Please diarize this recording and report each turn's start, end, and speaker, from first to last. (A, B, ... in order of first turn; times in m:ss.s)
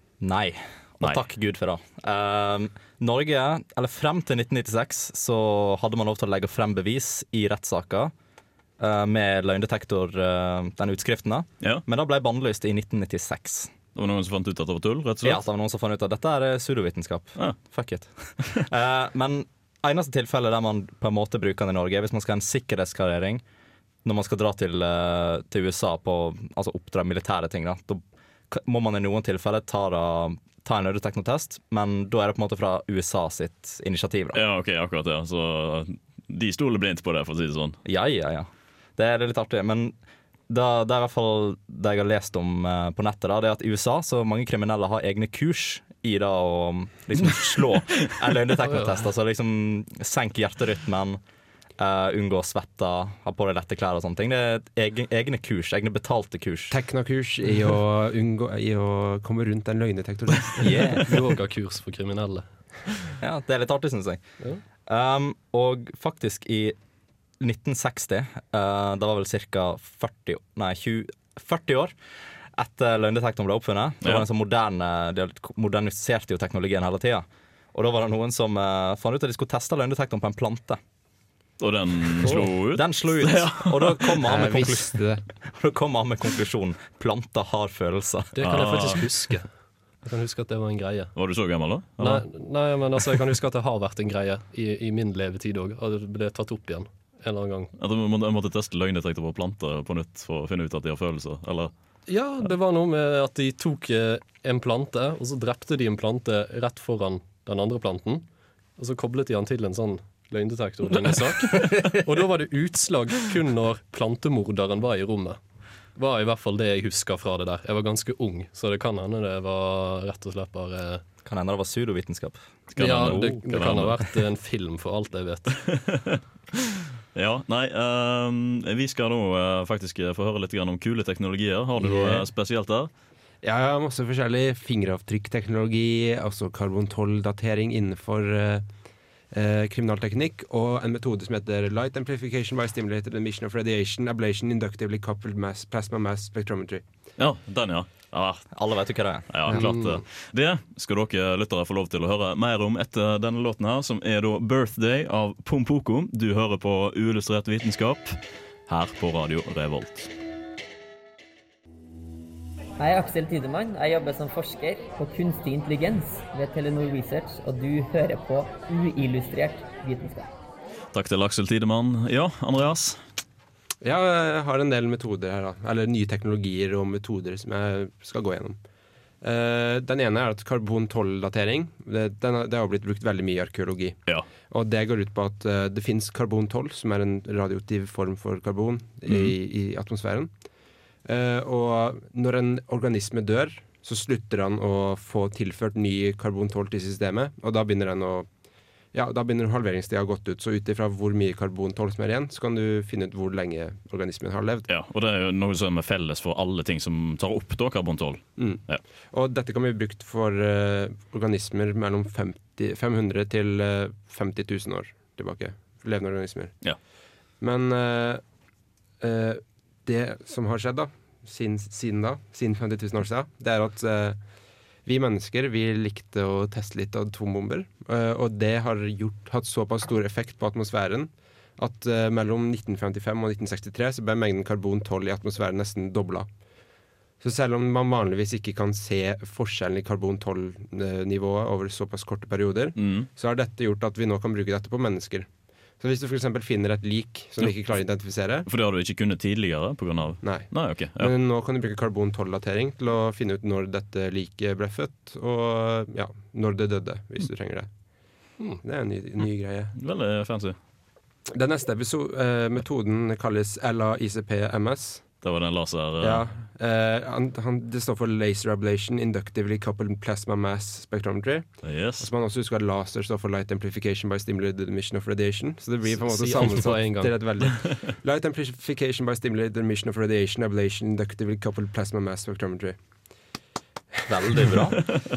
0:00.2-0:08.1 A
0:08.8-0:13.7 A
0:14.0-0:15.4 B
0:15.2-0:23.4 A
0:24.0-0:34.4 A
0:34.3-0:37.8 B
0:37.8-0:40.0 A
0:40.5-0:51.2 A
0:48.6-0:49.0 C
0:51.8-0:56.8 A
0:56.7-1:01.0 D
1:00.6-1:01.0 A
1:01.0-1:02.9 C
1:03.2-1:04.2 A
1:04.8-1:06.8 A
1:07.4-1:12.0 A
1:12.5-1:20.8 A
1:21.6-1:24.2 B
1:22.3-1:28.3 A
1:24.2-1:25.2 D
1:28.4-1:29.5 C
1:28.4-1:29.2 B
1:30.0-1:31.1 C
1:31.2-1:32.3 B
1:32.0-1:37.7 C
1:37.8-1:41.7 B
1:42.1-1:48.2 C
1:48.8-1:55.4 C
1:56.0-2:01.0 C
2:01.2-2:03.4 A
2:02.7-2:04.0 B
2:02.8-2:05.6 C
2:05.7-2:06.2 B
2:07.2-2:12.9 B
2:11.8-2:12.3 D
2:13.4-2:18.7 D
2:19.3-2:26.8 D
2:27.2-2:28.5 B
2:28.5-2:29.6 A
2:29.3-2:40.1 B
2:29.5-2:30.0 C
2:42.8-2:50.3 E
2:50.9-2:53.0 B
2:53.8-2:58.6 D
2:59.2-3:04.0 D
3:04.5-3:10.3 D
3:09.1-3:09.3 B
3:11.0-3:18.3 D
3:18.9-3:24.7 D
3:24.7-3:28.8 B
3:28.4-3:36.6 D
3:37.4-3:38.2 D
3:39.0-3:44.2 D
3:44.8-3:56.3 D
3:57.2-4:08.5 D
4:02.8-4:03.1 B
4:07.4-4:07.8 B
4:08.5-4:11.1 B
4:10.2-4:17.7 D
4:18.6-4:19.7 D
4:19.8-4:20.6 B
4:21.3-4:25.1 D
4:25.2-4:26.3 B
4:26.0-4:42.8 D
4:31.6-4:32.1 B
4:35.8-4:37.2 C
4:44.1-4:44.8 A